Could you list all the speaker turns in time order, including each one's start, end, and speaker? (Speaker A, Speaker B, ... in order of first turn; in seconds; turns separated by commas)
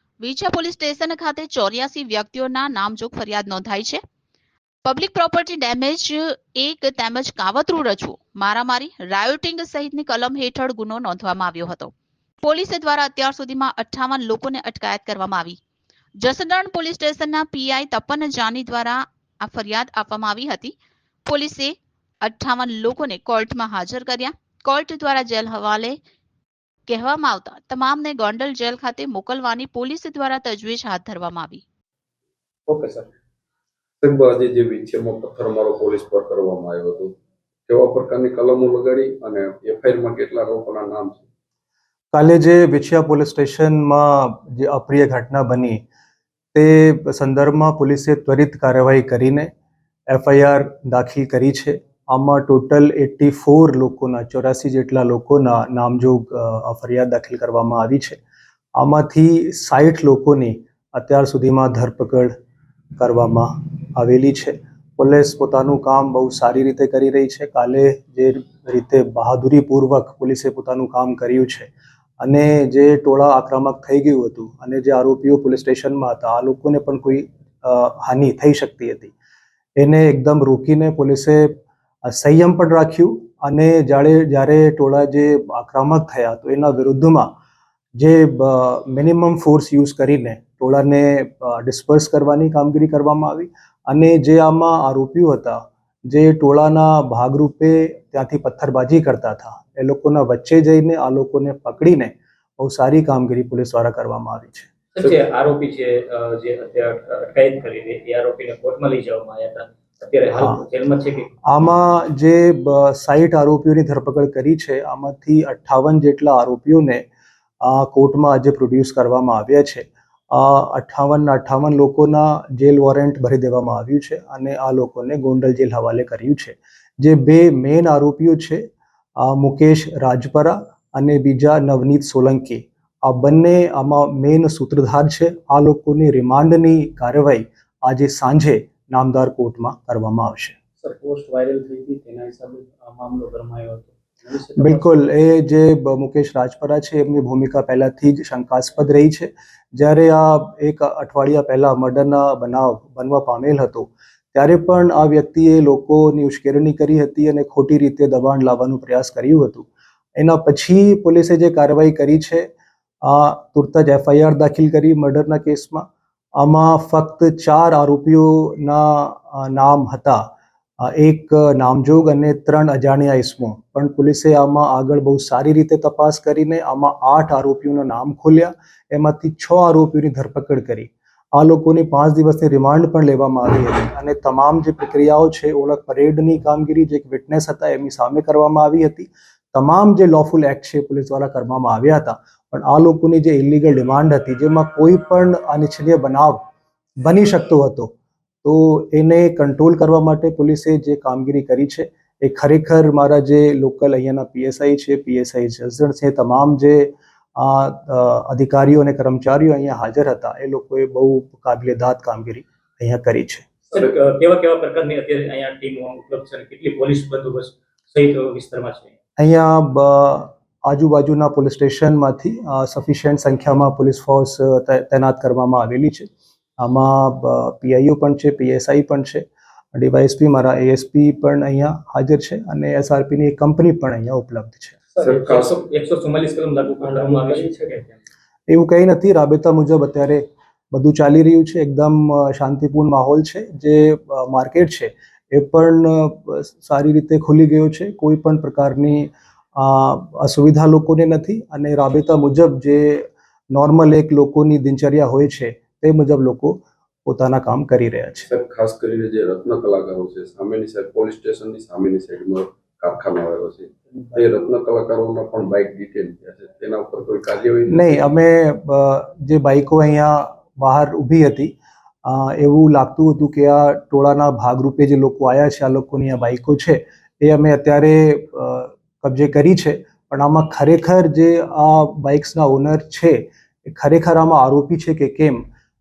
Speaker A: 0.2-4.0, Speaker A: 4.8-11.9, Speaker A: 12.4-15.6, Speaker A: 16.2-20.7, Speaker A: 21.3-25.9, Speaker A: 26.9-31.6, Speaker B: 32.7-33.0, Speaker B: 34.0-37.1, Speaker B: 37.7-41.2, Speaker C: 42.1-45.8, Speaker C: 46.5-49.5, Speaker C: 50.1-58.2, Speaker C: 58.8-62.3, Speaker C: 63.0-71.7, Speaker C: 72.2-79.1, Speaker C: 79.8-87.3, Speaker C: 88.0-104.7, Speaker D: 104.9-111.3, Speaker C: 110.3-110.6, Speaker C: 111.5-117.0, Speaker C: 117.6-140.6, Speaker E: 140.8-144.9, Speaker C: 144.6-162.5, Speaker C: 163.0-170.2, Speaker C: 170.8-196.4, Speaker C: 197.0-213.5, Speaker D: 213.7-218.9, Speaker C: 219.2-234.8, Speaker D: 235.0-237.8, Speaker B: 235.0-235.6, Speaker E: 236.8-237.9, Speaker C: 238.5-258.3, Speaker B: 258.2-268.1, Speaker C: 267.7-271.5, Speaker C: 272.0-285.5